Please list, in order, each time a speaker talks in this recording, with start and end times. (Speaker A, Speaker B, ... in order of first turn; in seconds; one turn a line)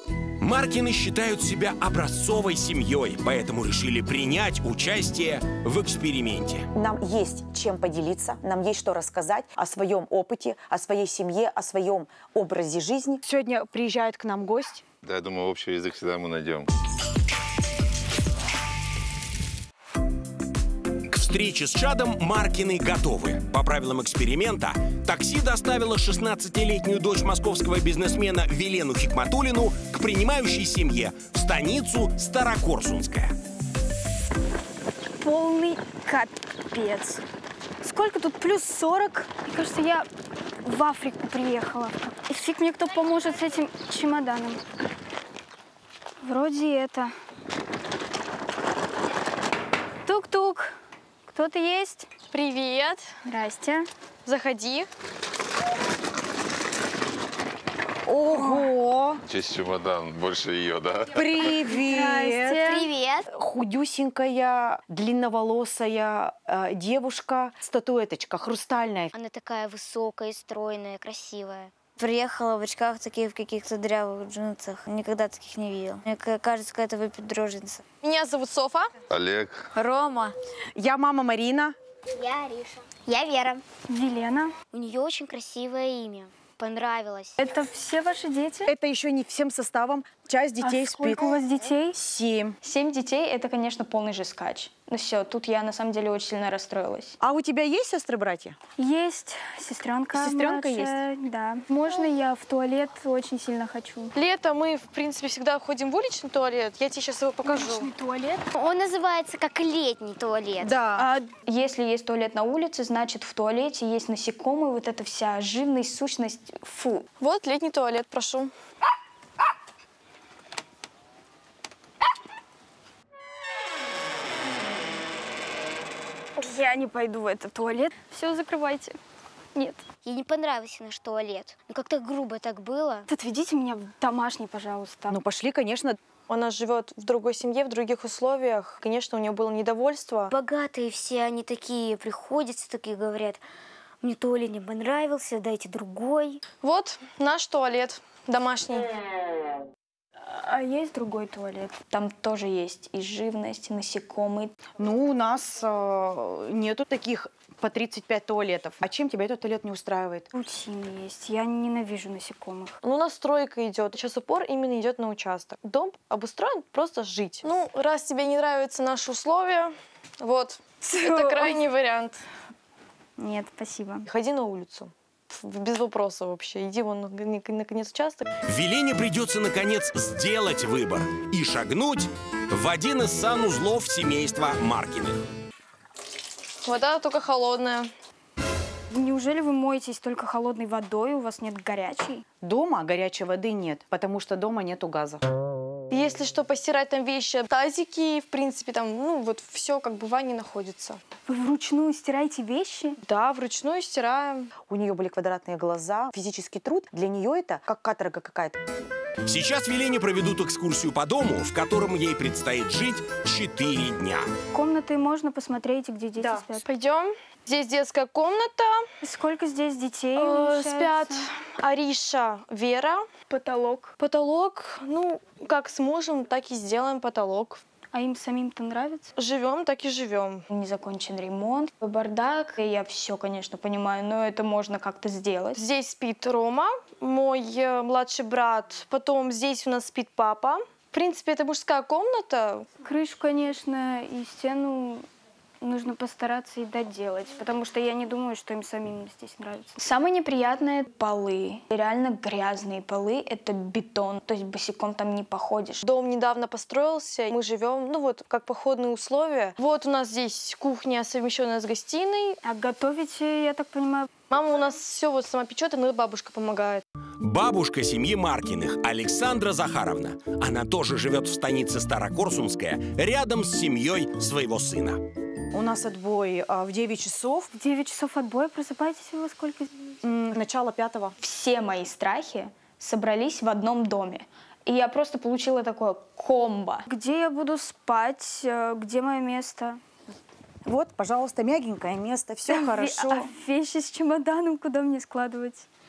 Speaker A: 0.4-6.7
Speaker B: 6.7-14.8
Speaker C: 15.0-16.7
Speaker A: 21.1-33.3
Speaker D: 35.2-37.2
Speaker D: 37.8-40.1
Speaker D: 40.6-44.6
Speaker D: 46.2-47.1
Speaker D: 50.0-50.7
Speaker D: 51.3-52.1
Speaker E: 52.3-53.1
Speaker D: 53.2-53.9
Speaker E: 54.2-54.9
Speaker B: 58.0-59.2
Speaker D: 58.3-58.6
Speaker C: 59.2-61.2
Speaker B: 61.1-62.7
Speaker D: 61.4-62.9
Speaker F: 62.6-63.3
Speaker B: 63.3-69.1
Speaker F: 69.1-77.8
Speaker E: 78.0-78.9
Speaker C: 79.1-79.7
Speaker F: 79.8-80.3
Speaker B: 80.8-81.7
Speaker F: 83.1-83.6
Speaker D: 83.9-84.5
Speaker F: 84.7-87.4
Speaker D: 87.4-88.7
Speaker B: 88.7-91.3
Speaker D: 90.6-92.0
Speaker B: 91.9-92.6
Speaker D: 92.6-97.2
Speaker B: 97.2-98.5
Speaker D: 98.8-104.1
Speaker B: 100.1-100.9
Speaker E: 104.1-107.9
Speaker D: 107.4-108.5
Speaker F: 108.5-110.7
Speaker B: 110.6-111.1
Speaker D: 111.0-117.1
Speaker E: 117.2-118.5
Speaker D: 126.4-128.9
Speaker D: 129.5-129.8
Speaker F: 130.0-133.1
Speaker D: 133.1-135.2
Speaker B: 135.1-136.0
Speaker E: 136.3-140.3
Speaker F: 140.3-143.4
Speaker F: 144.0-146.4
Speaker E: 146.6-148.9
Speaker D: 150.2-154.5
Speaker B: 154.8-160.3
Speaker D: 160.3-162.8
Speaker E: 162.8-172.2
Speaker D: 170.8-171.6
Speaker D: 173.2-174.1
Speaker E: 174.1-178.2
Speaker A: 178.5-185.2
Speaker E: 186.6-187.9
Speaker D: 188.9-192.2
Speaker B: 192.4-195.2
Speaker E: 195.9-201.0
Speaker D: 201.2-203.0
Speaker E: 203.0-204.5
Speaker B: 204.7-208.6
Speaker A: 209.2-214.3
Speaker D: 214.5-216.6
Speaker E: 216.2-218.9
Speaker D: 219.0-221.3
Speaker E: 220.2-223.1
Speaker D: 223.3-223.9
Speaker E: 224.0-227.6
Speaker D: 227.9-229.1
Speaker E: 229.2-230.4
Speaker D: 230.5-235.6
Speaker E: 235.5-242.7
Speaker D: 242.8-245.1
Speaker D: 245.6-255.8
Speaker E: 255.8-262.4
Speaker D: 262.4-264.1
Speaker E: 264.3-266.8
Speaker A: 267.2-275.0
Speaker B: 275.5-277.5
Speaker D: 277.5-279.7
Speaker B: 280.0-281.1
Speaker D: 281.2-289.8
Speaker B: 290.6-293.3
Speaker D: 292.5-295.6